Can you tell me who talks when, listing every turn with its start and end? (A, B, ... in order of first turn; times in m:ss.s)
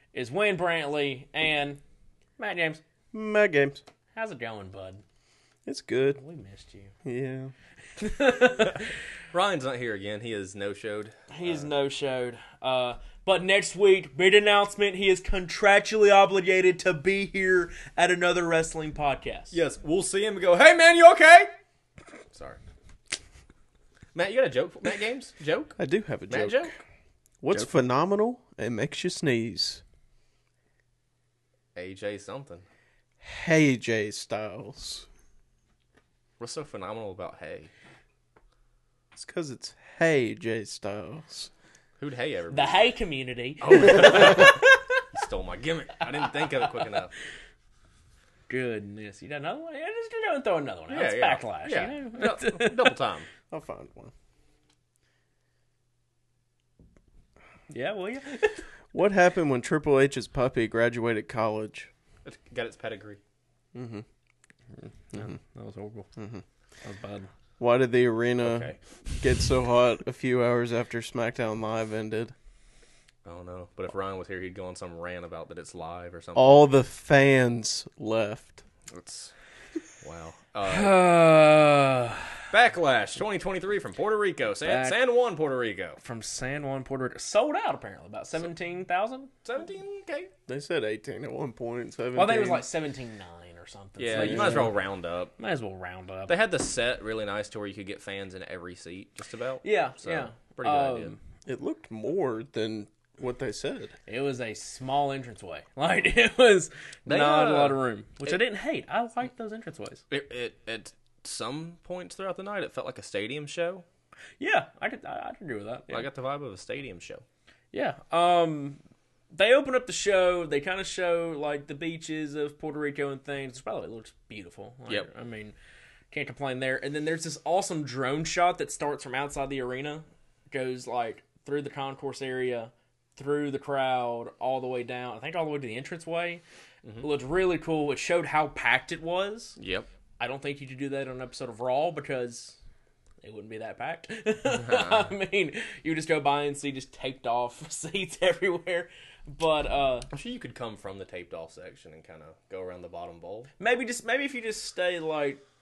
0:00.1-0:01.8 A
0:02.4-0:02.8 A
0:03.1-0:03.8 B
0:04.2-0:05.0 A
0:05.7-0:06.2 B
0:06.2-0:06.9 A
0:07.0-0:07.5 B
0:08.0-0:08.9 A
0:08.7-0:11.7 C
0:11.3-0:19.6 A
0:19.5-0:21.5 C
0:22.3-0:22.6 C
0:24.1-0:25.8 C
0:25.8-0:26.7 B
0:26.3-0:26.7 C
0:27.4-0:29.8 B
0:27.5-0:27.8 C
0:31.8-0:32.7 C
0:33.2-0:35.1 B
0:36.4-0:37.7 C
0:39.2-0:41.5 B
0:42.0-0:42.8 C
0:42.5-0:45.0 A
0:43.6-0:47.1 C
0:46.2-0:47.0 A
0:48.5-0:53.0 A
0:50.9-0:53.3 C
0:53.5-0:54.1 B
0:57.7-0:58.7 A
0:58.9-1:01.9 B
1:02.2-1:03.2 C
1:03.7-1:04.1 B
1:05.1-1:06.1 A
1:06.2-1:06.4 B
1:06.8-1:07.3 A
1:07.6-1:12.3 B
1:08.4-1:09.0 C
1:13.2-1:16.6 C
1:16.4-1:18.6 B
1:18.9-1:19.3 C
1:20.0-1:21.0 C
1:20.6-1:22.5 A
1:22.5-1:26.0 C
1:24.6-1:25.0 A
1:26.0-1:29.3 A
1:29.4-1:30.3 C
1:30.5-1:32.6 B
1:32.2-1:34.7 A
1:34.0-1:35.3 C
1:34.1-1:34.7 B
1:35.4-1:36.3 A
1:36.3-1:41.1 C
1:39.6-1:41.2 A
1:41.5-1:44.0 B
1:44.1-1:50.0 A
1:47.1-1:48.4 C
1:50.1-1:53.8 C
1:54.4-1:56.1 A
1:55.9-1:57.2 C
1:57.7-1:58.8 A
1:59.3-2:05.6 A
2:06.1-2:16.4 A
2:17.0-2:19.6 A
2:19.6-2:19.9 C
2:20.2-2:22.6 A
2:23.2-2:30.1 A
2:24.5-2:25.1 C
2:30.1-2:33.5 C
2:33.6-2:35.4 A